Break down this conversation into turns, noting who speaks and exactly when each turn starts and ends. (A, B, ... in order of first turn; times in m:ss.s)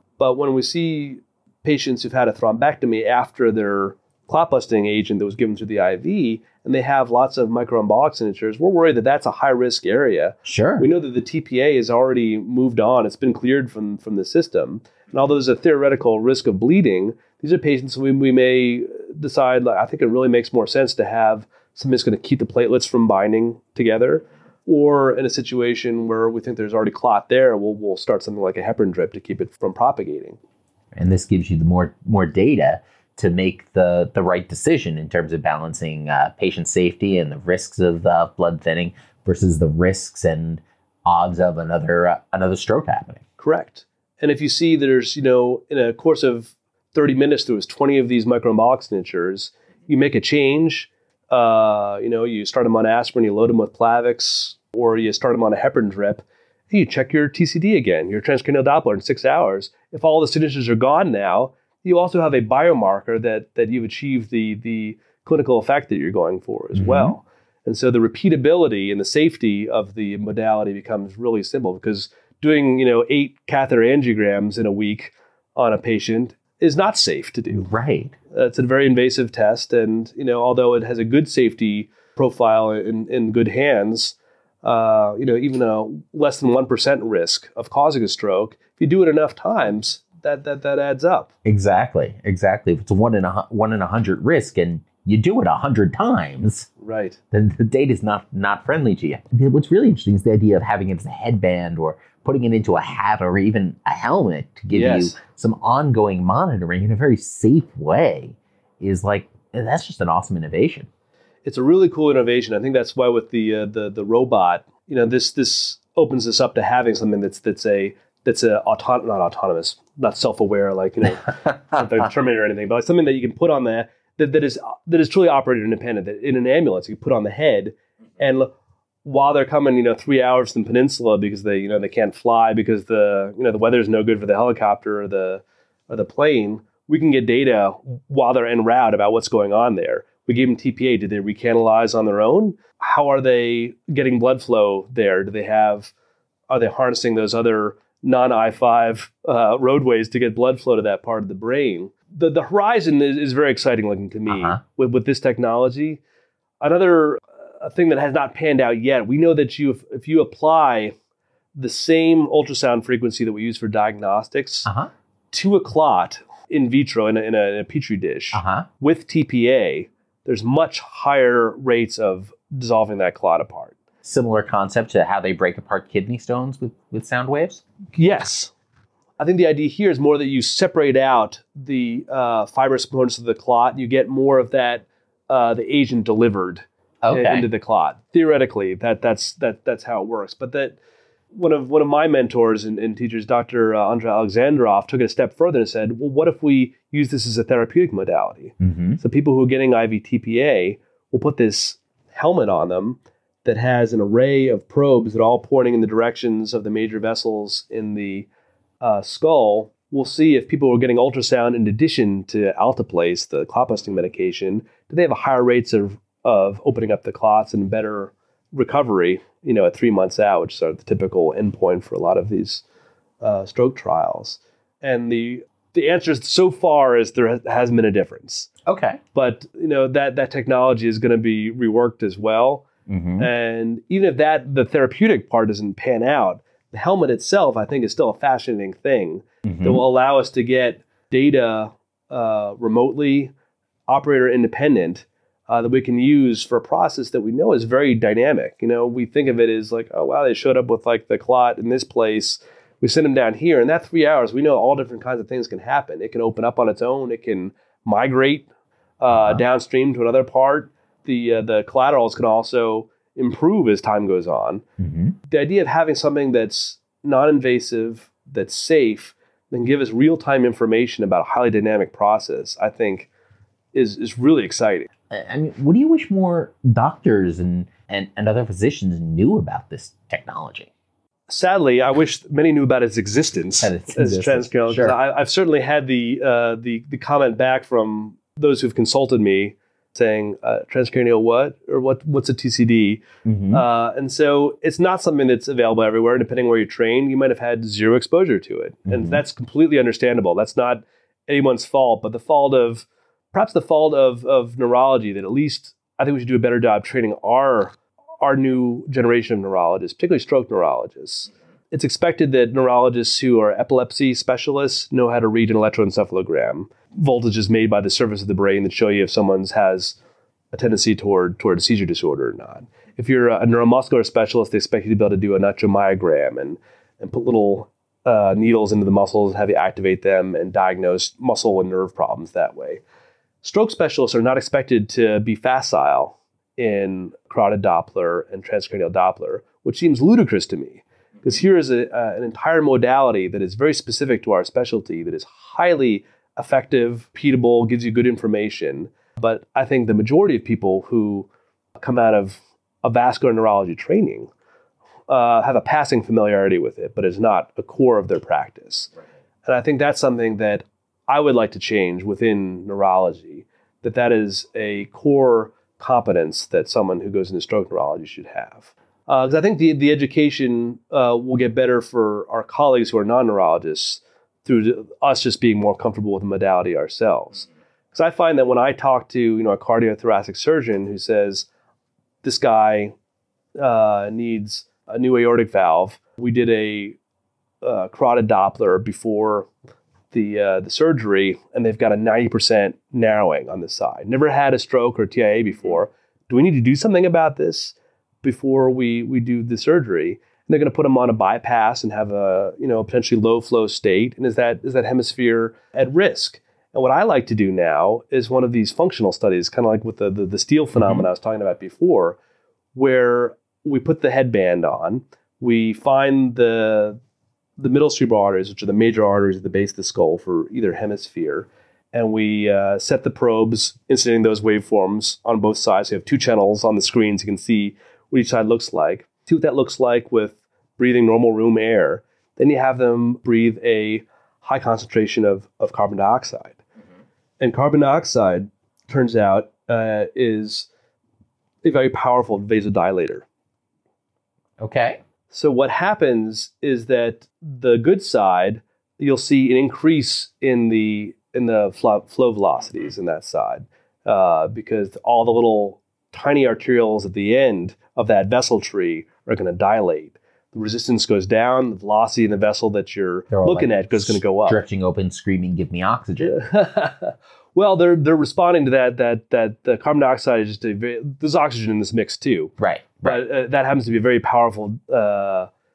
0:00.2-0:30.4 A
0:10.4-0:10.9 B
0:30.9-0:43.2 B
0:43.4-1:17.7 A
1:06.7-1:07.2 B
1:17.5-1:18.1 B
1:18.3-1:31.3 A
1:31.4-1:36.7 B
1:36.8-1:37.2 A
1:37.3-1:50.9 B
1:44.7-1:45.2 A
1:51.4-2:08.5 A
2:09.0-2:25.9 A
2:26.5-2:36.0 A
2:34.3-2:34.6 B
2:36.6-2:40.9 A
2:41.5-2:44.7 A
2:45.3-2:53.7 A
2:48.3-2:48.7 B
2:54.0-2:57.6 B
2:57.9-2:58.5 A
2:59.2-3:10.8 A
3:07.0-3:07.5 B
3:11.3-3:28.3 A
3:18.6-3:19.0 B
3:28.8-3:42.6 A
3:43.2-3:48.5 A
3:48.6-3:49.0 B
3:49.1-3:52.7 A
3:52.9-3:53.3 B
3:53.2-4:03.3 A
3:59.4-3:59.8 B
4:03.9-4:18.5 A
4:19.0-4:24.6 A
4:19.1-4:19.4 B
4:24.8-4:25.1 B
4:25.3-4:33.1 A
4:33.7-4:34.9 A
4:35.1-4:40.7 B
4:41.3-5:20.0 A
4:43.6-4:45.0 B
4:53.2-4:53.6 B
4:58.9-4:59.2 B
5:20.5-5:32.8 A
5:33.4-5:54.3 A
5:55.1-5:58.9 A
5:59.4-6:21.5 A
6:22.2-6:22.9 A
6:23.6-6:27.0 A
6:27.6-6:29.5 A
6:30.1-6:52.2 A
6:50.8-6:51.0 B
6:52.7-6:57.0 A
6:57.6-7:16.6 A
7:17.4-7:20.7 A
7:21.6-7:23.2 A
7:24.6-7:25.0 B
7:25.3-7:44.6 A
7:43.3-7:46.4 B
7:46.2-7:52.5 A
7:52.6-7:53.2 B
7:53.0-7:55.5 A